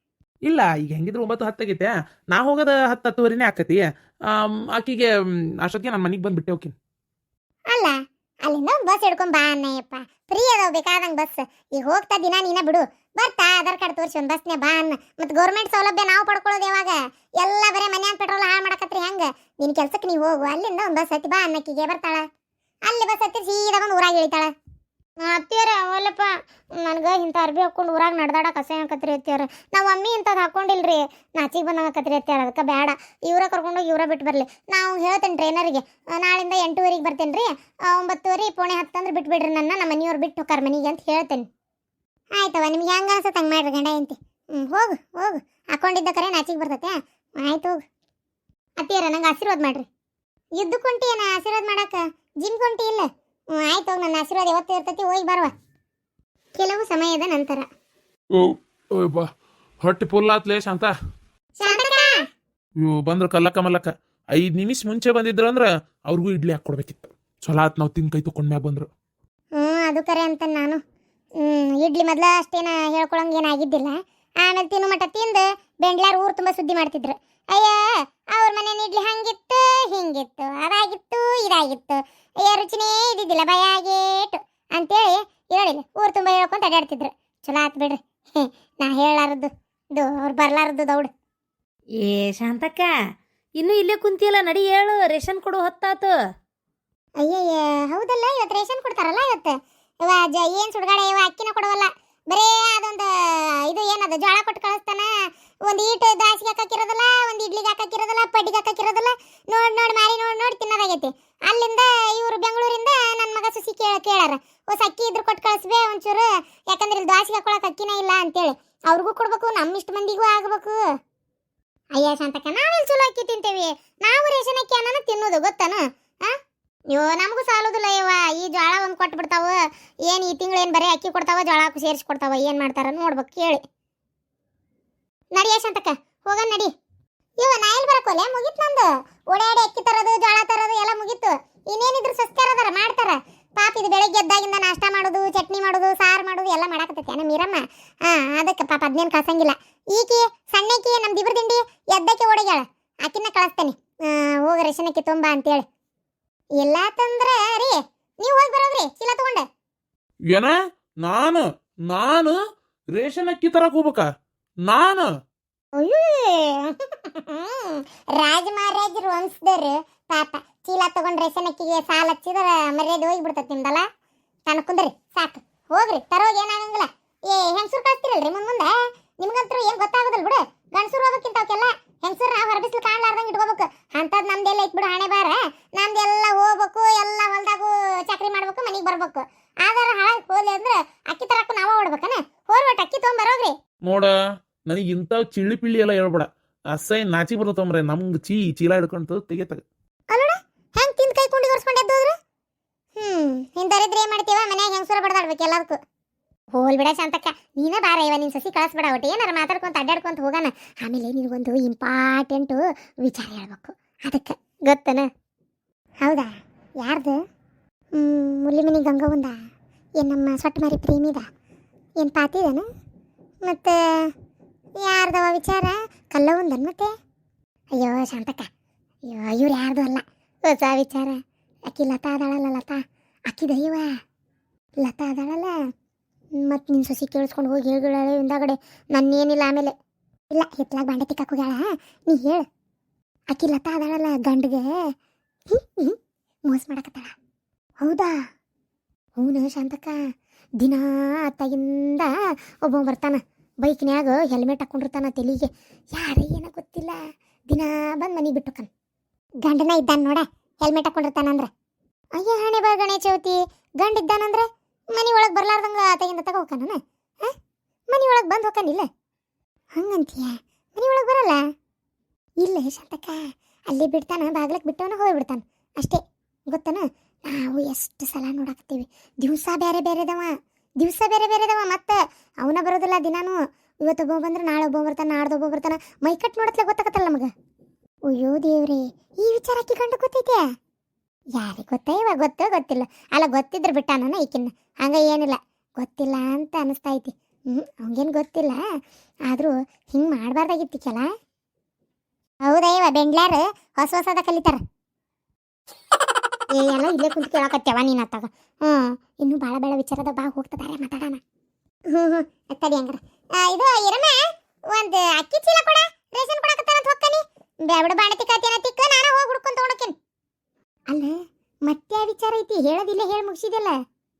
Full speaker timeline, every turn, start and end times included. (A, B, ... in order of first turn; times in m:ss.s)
0:00.5-0:05.1 A
0:05.6-0:06.7 A
0:08.4-0:22.2 B
0:22.9-0:24.5 B
0:25.2-0:41.5 B
0:42.4-0:47.8 B
0:48.8-0:49.9 B
0:50.6-0:55.5 B
0:56.6-0:57.6 B
0:58.4-0:59.3 A
0:59.8-1:00.9 A
1:01.6-1:02.1 B
1:02.8-1:08.9 A
1:09.6-1:10.8 B
1:11.4-1:31.1 B
1:32.0-1:32.9 C
1:33.6-1:36.1 C
1:37.2-1:45.1 B
1:45.7-2:00.8 B
2:02.0-2:06.3 B
2:06.9-2:13.6 B
2:15.3-2:16.7 B
2:17.4-2:35.6 B
2:36.6-2:39.4 B
2:40.3-2:42.3 A
2:42.9-2:44.0 A
2:44.7-2:45.1 A
2:45.8-2:53.8 B
2:54.5-3:13.5 B
3:14.7-3:19.6 A
3:20.1-3:22.1 B
3:23.0-3:25.8 B
3:26.6-3:35.1 B
3:36.0-3:37.2 B
3:37.9-3:39.4 B
3:40.0-3:41.2 B
3:42.0-3:42.7 B
3:43.4-3:44.1 B
3:44.8-3:46.9 B
3:47.7-3:48.5 B
3:49.1-3:53.9 B
3:54.8-3:55.5 B
3:56.4-3:59.7 B
4:00.3-4:02.4 B
4:03.3-4:04.7 B
4:05.5-4:06.0 B
4:06.5-4:07.1 B
4:07.8-4:08.2 B
4:09.2-4:10.0 B
4:10.6-4:12.1 B
4:12.7-4:17.0 B
4:17.5-4:18.7 B
4:19.4-4:21.5 B
4:22.2-4:27.3 B
4:27.9-4:28.9 B
4:29.8-4:31.4 B
4:32.4-4:47.3 B
4:48.1-4:50.4 B
4:51.4-4:58.6 B
4:59.3-5:01.1 B
5:02.4-5:04.6 B
5:06.5-5:11.2 B
5:11.9-5:14.2 B
5:14.7-5:19.9 B
5:21.7-5:23.7 B